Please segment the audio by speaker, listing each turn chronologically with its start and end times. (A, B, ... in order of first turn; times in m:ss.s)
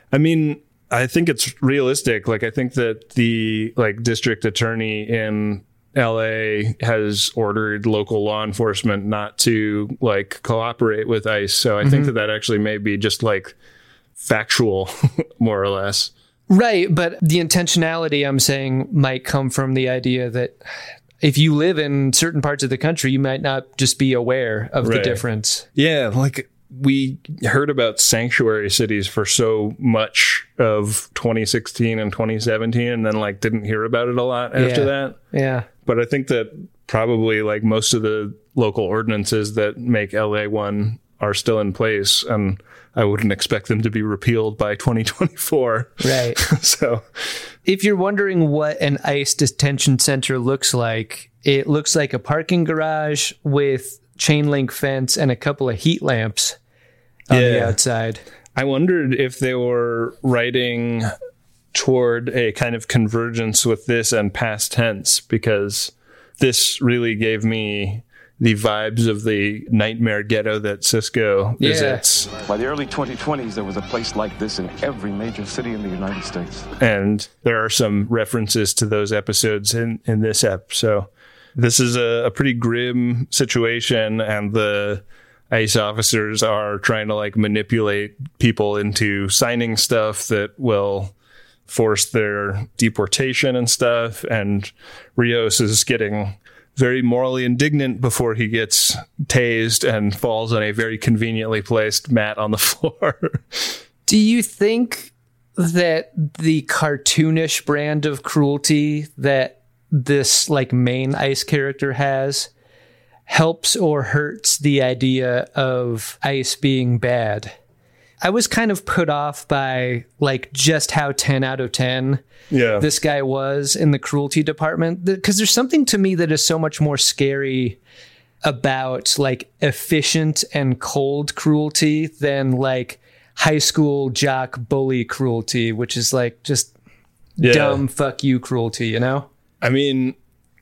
0:00.1-0:13.5 A
0:11.8-0:12.1 B
0:14.2-0:16.1 A
0:16.5-0:20.6 B
0:21.2-0:25.6 B
0:24.8-0:25.2 A
0:25.7-0:35.2 A
0:34.5-0:35.7 B
0:35.8-0:47.1 A
0:46.0-0:46.4 B
0:47.6-0:56.6 B
0:57.3-0:58.2 B
0:57.3-0:57.8 A
0:58.5-1:01.1 A
1:01.7-1:12.4 A
1:11.6-1:12.0 B
1:12.5-1:16.7 C
1:16.8-1:31.1 A
1:31.7-1:43.8 A
1:44.0-1:52.5 B
1:53.3-1:57.5 B
1:58.2-2:02.2 B
2:02.5-2:02.8 A
2:02.8-2:07.8 B
2:08.4-2:16.7 B
2:17.4-2:17.8 A
2:17.4-2:19.3 B
2:19.6-2:20.2 A